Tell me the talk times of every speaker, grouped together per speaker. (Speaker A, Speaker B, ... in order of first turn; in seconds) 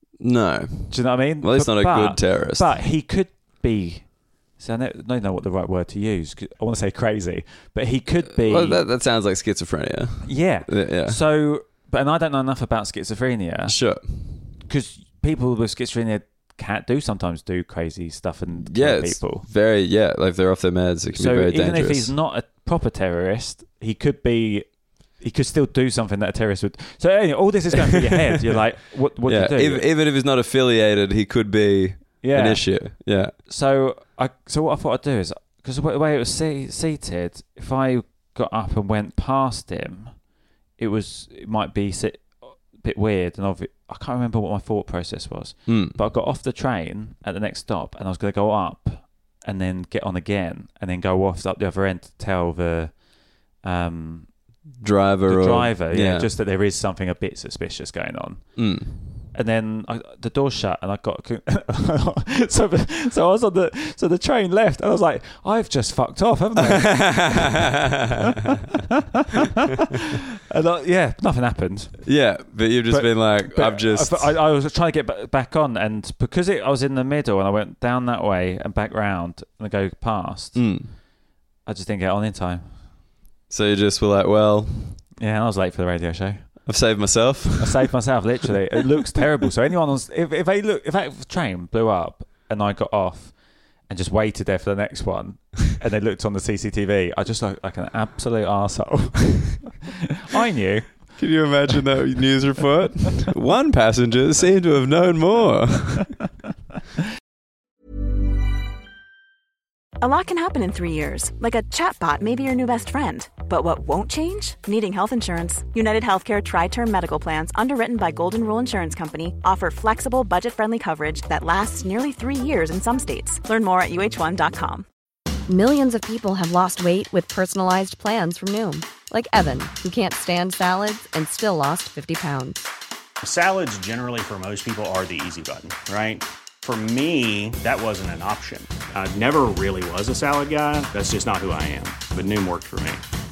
Speaker A: 0.2-2.8, 8.3-11.2, 13.7-14.0, 18.6-22.1, 27.8-28.6, 29.2-33.3, 45.7-46.0, 54.8-56.3, 58.6-59.0, 66.6-68.3, 72.1-74.3, 80.5-80.9, 83.5-85.0, 86.7-87.9, 101.2-106.1
Speaker B: 0.9-8.8, 10.2-13.8, 14.7-19.5, 21.1-29.9, 32.2-32.7, 33.5-40.1, 40.8-53.0, 53.6-54.3, 55.3-58.6, 59.3-67.6, 69.2-72.1, 72.9-80.7, 81.7-82.7, 85.2-86.5, 87.6-93.3, 93.9-101.1
Speaker C: 110.0-124.9
Speaker D: 125.5-132.7
Speaker E: 133.2-143.0